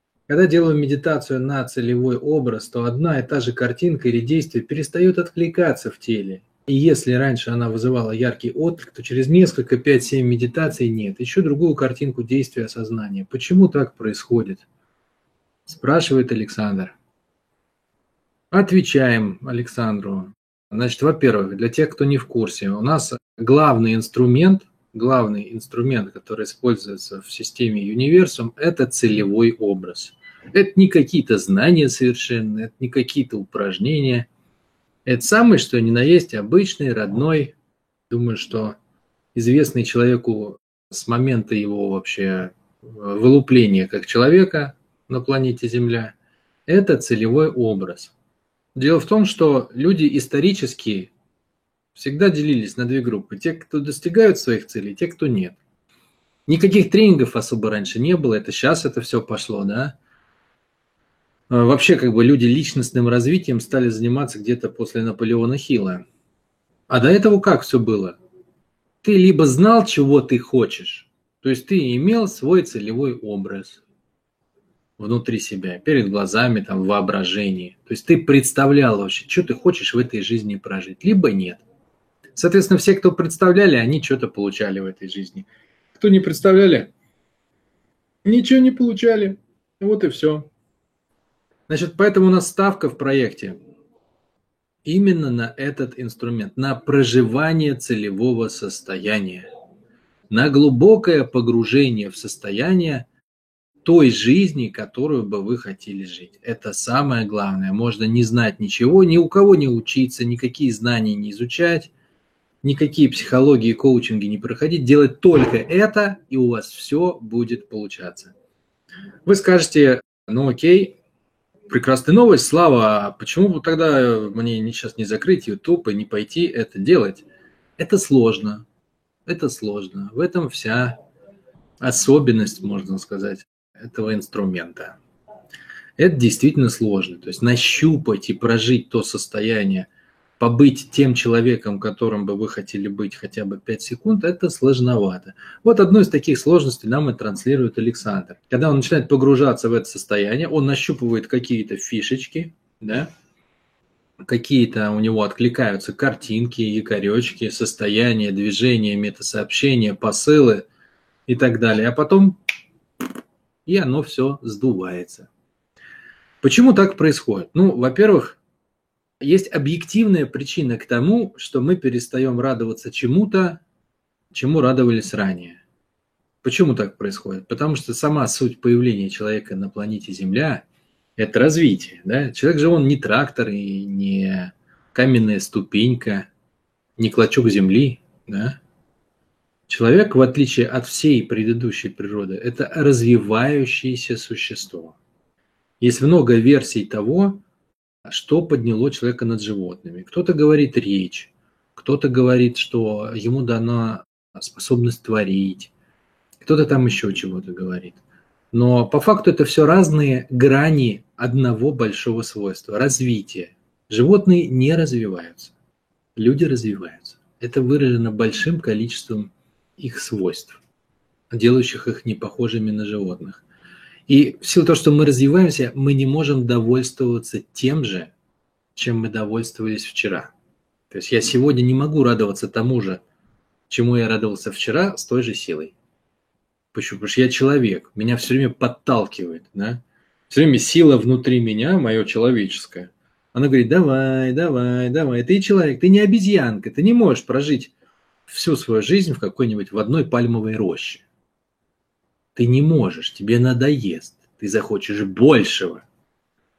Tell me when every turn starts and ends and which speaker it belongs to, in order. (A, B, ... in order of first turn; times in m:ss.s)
0:00.3-0:14.6 A
0:15.7-0:17.0 A
0:18.5-0:34.3 A
0:35.1-0:37.6 A
0:38.1-0:38.8 A
0:39.4-0:46.2 A
0:46.7-0:48.1 A
0:48.8-0:51.1 A
0:52.0-0:55.6 A
0:56.5-1:00.0 A
1:01.5-1:06.0 A
1:06.9-1:08.2 A
1:09.0-1:13.8 A
1:15.0-1:21.6 A
1:22.4-1:26.9 A
1:28.2-1:30.5 A
1:31.7-1:33.6 A
1:34.8-1:39.5 A
1:40.3-1:43.1 A
1:43.8-1:51.9 A
1:52.6-1:58.3 A
1:59.3-2:01.0 A
2:01.7-2:07.2 A
2:07.8-2:08.6 A
2:09.3-2:11.0 A
2:11.8-2:15.0 A
2:16.0-2:33.1 A
2:34.3-2:40.7 A
2:41.3-2:42.4 A
2:43.7-2:45.3 A
2:46.4-2:48.4 A
2:49.2-2:53.6 A
2:54.3-2:55.6 A
2:56.4-3:00.7 A
3:01.2-3:06.3 A
3:07.0-3:08.6 A
3:09.7-3:15.0 A
3:15.8-3:17.4 A
3:18.1-3:25.7 A
3:26.4-3:28.0 A
3:28.5-3:35.5 A
3:36.2-3:40.6 A
3:41.3-3:43.4 A
3:44.1-3:48.1 A
3:48.8-3:50.3 A
3:50.9-3:53.0 A
3:53.7-3:55.7 A
3:56.7-4:07.7 A
4:08.3-4:11.0 A
4:12.4-4:15.8 A